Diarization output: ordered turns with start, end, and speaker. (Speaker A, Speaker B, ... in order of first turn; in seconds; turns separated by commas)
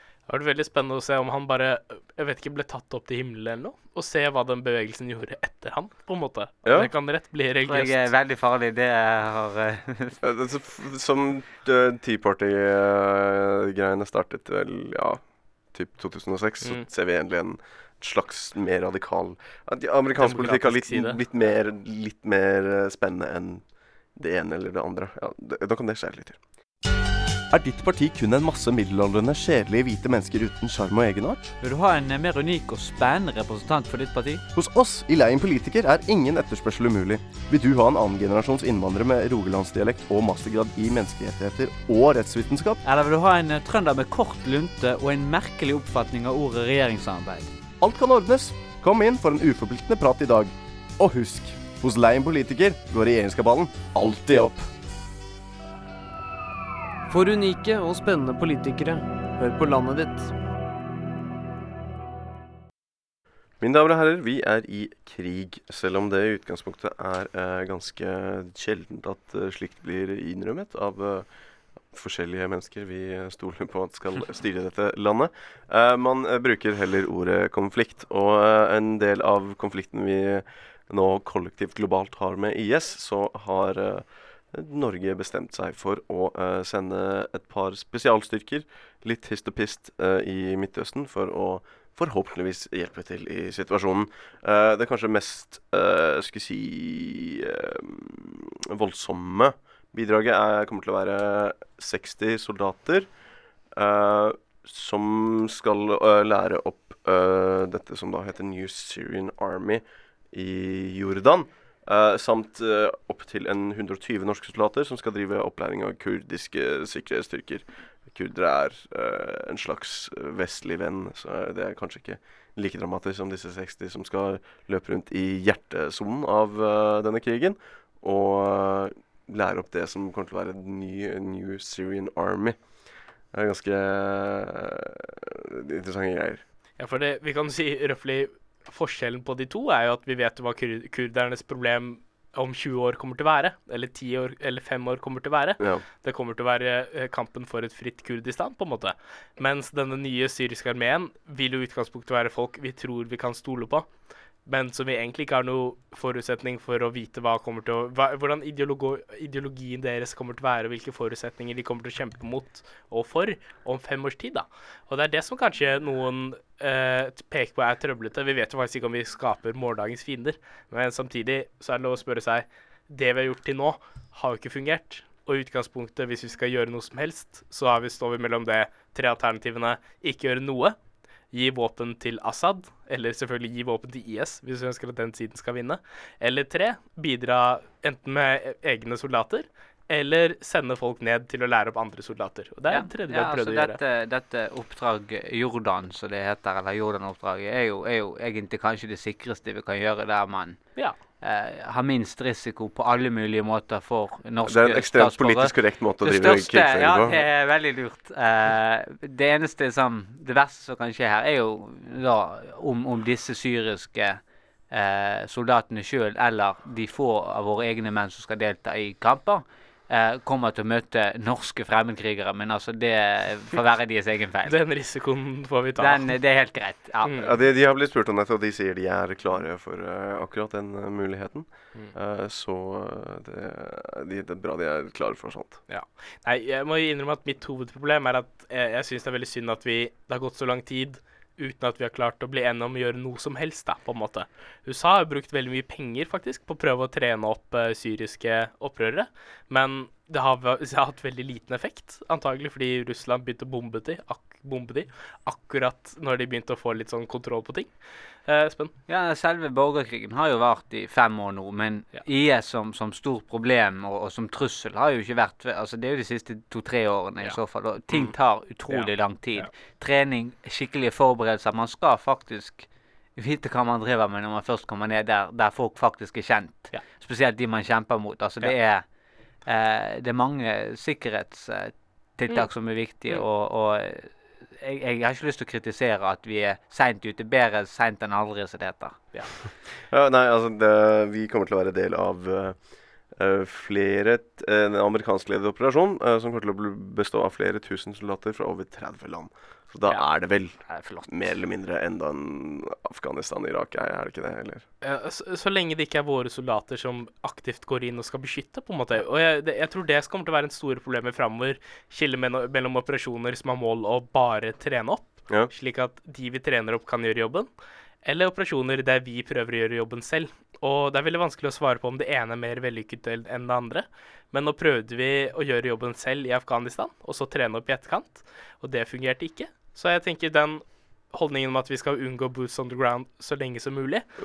Speaker A: 0.3-8.1, Speaker B: 6.6-6.9, Speaker C: 7.7-10.2, Speaker B: 10.2-15.2, Speaker B: 15.7-26.4, Speaker A: 20.1-21.2, Speaker B: 27.5-31.5, Speaker D: 31.6-34.4, Speaker B: 34.5-42.8, Speaker D: 42.8-47.5, Speaker B: 47.8-54.6, Speaker E: 57.1-60.3, Speaker B: 63.6-71.3, Speaker B: 71.9-103.1, Speaker B: 103.8-132.6, Speaker B: 133.3-136.4, Speaker A: 136.8-153.9, Speaker B: 145.6-145.8, Speaker A: 154.4-180.8, Speaker A: 181.3-193.8, Speaker C: 192.7-200.6, Speaker C: 201.2-224.6, Speaker B: 204.4-207.2, Speaker A: 224.4-226.1, Speaker C: 225.8-227.1, Speaker A: 227.0-227.3, Speaker B: 227.2-235.6, Speaker A: 235.7-257.7, Speaker A: 258.3-258.7, Speaker C: 258.9-278.8, Speaker A: 268.7-269.5, Speaker C: 279.4-289.1, Speaker B: 289.9-292.6, Speaker B: 293.1-304.6, Speaker C: 300.7-301.1, Speaker A: 304.8-317.5, Speaker A: 318.1-334.1